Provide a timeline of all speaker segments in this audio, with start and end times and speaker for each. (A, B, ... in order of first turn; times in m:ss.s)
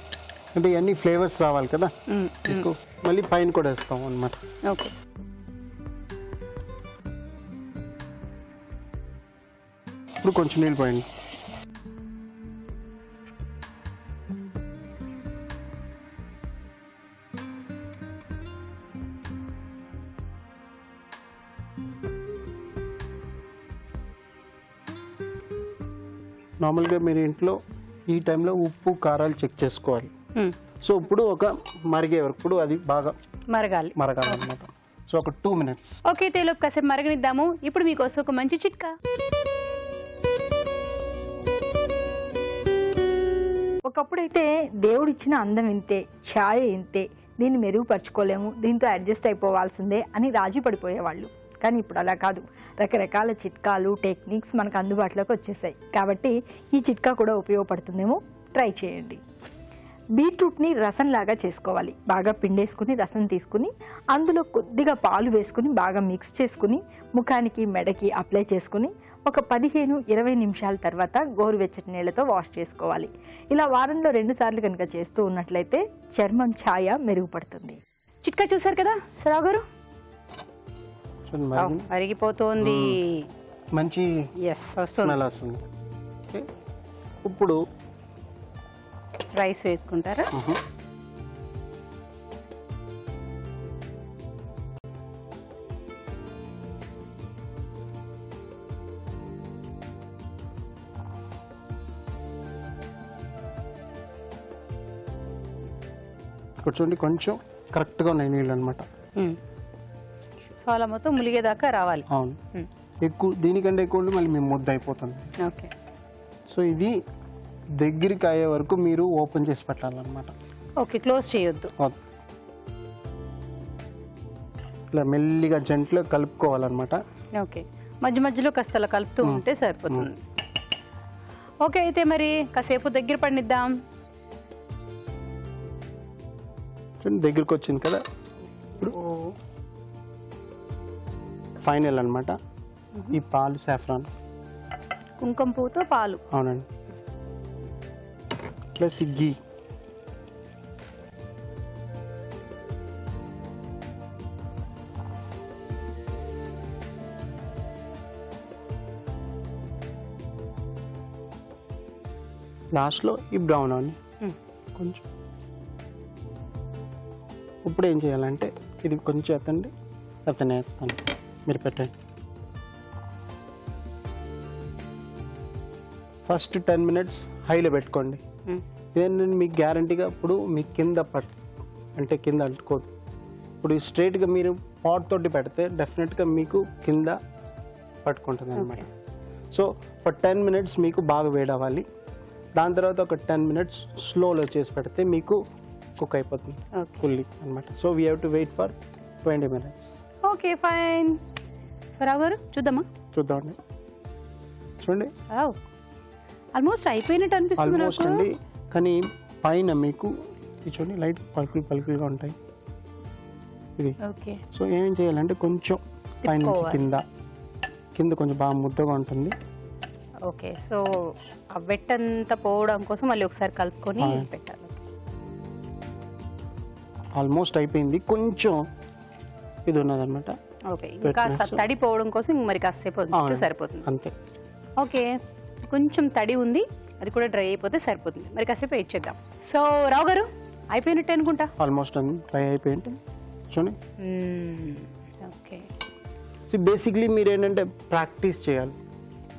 0:00.5-0:01.9 A
0:02.1-0:02.7 B
0:02.5-0:04.4 A
0:04.7-0:04.9 B
0:10.2-0:11.1 A
0:26.6-0:30.1 A
0:30.8-0:33.2 A
0:33.5-0:33.9 B
0:34.0-0:36.0 A
0:36.0-0:39.0 B
0:43.8-0:59.2 C
1:00.2-1:17.8 C
1:18.2-1:19.7 B
1:21.3-1:21.9 A
1:21.6-1:23.3 B
1:22.6-1:23.0 A
1:23.8-1:24.1 A
1:24.4-1:25.2 B
1:25.0-1:25.6 A
1:27.2-1:27.6 A
1:29.4-1:30.3 B
1:30.3-1:30.6 A
1:46.6-1:48.9 A
1:50.6-1:52.7 B
1:52.1-1:52.4 A
1:53.0-1:55.3 A
1:55.4-1:55.7 B
1:56.5-1:57.0 A
1:57.8-2:00.3 A
2:00.8-2:01.7 B
2:04.9-2:07.0 A
2:07.4-2:10.2 B
2:09.2-2:10.1 A
2:11.6-2:13.7 B
2:17.0-2:18.0 A
2:18.8-2:19.4 B
2:21.6-2:22.4 A
2:23.1-2:24.1 A
2:25.2-2:26.2 B
2:26.3-2:26.7 A
2:28.8-2:29.4 A
2:42.7-2:44.0 A
2:44.8-2:45.0 A
2:47.6-2:49.7 A
2:50.3-2:51.9 A
2:56.2-2:58.2 A
2:59.0-3:01.3 A
3:02.0-3:02.9 A
3:03.6-3:07.2 A
3:08.0-3:08.9 A
3:08.6-3:08.9 B
3:09.5-3:11.8 A
3:12.6-3:15.4 A
3:16.0-3:19.9 A
3:16.7-3:17.0 B
3:20.2-3:21.2 B
3:22.0-3:22.9 B
3:23.1-3:23.6 A
3:24.8-3:25.1 A
3:25.3-3:25.6 B
3:26.6-3:28.2 B
3:27.6-3:30.1 A
3:30.6-3:32.4 A
3:34.0-3:34.4 B
3:34.5-3:37.0 A
3:36.2-3:36.8 B
3:38.0-3:39.4 A
3:40.3-3:44.8 B
3:44.0-3:44.3 A
3:47.2-3:48.6 A
3:49.7-3:50.4 A
3:50.7-3:53.9 B
3:51.0-3:51.6 A
3:53.1-3:54.1 A
3:54.8-4:01.5 B
4:01.6-4:03.0 A
4:03.5-4:03.8 A
4:04.0-4:05.7 B
4:06.5-4:08.8 A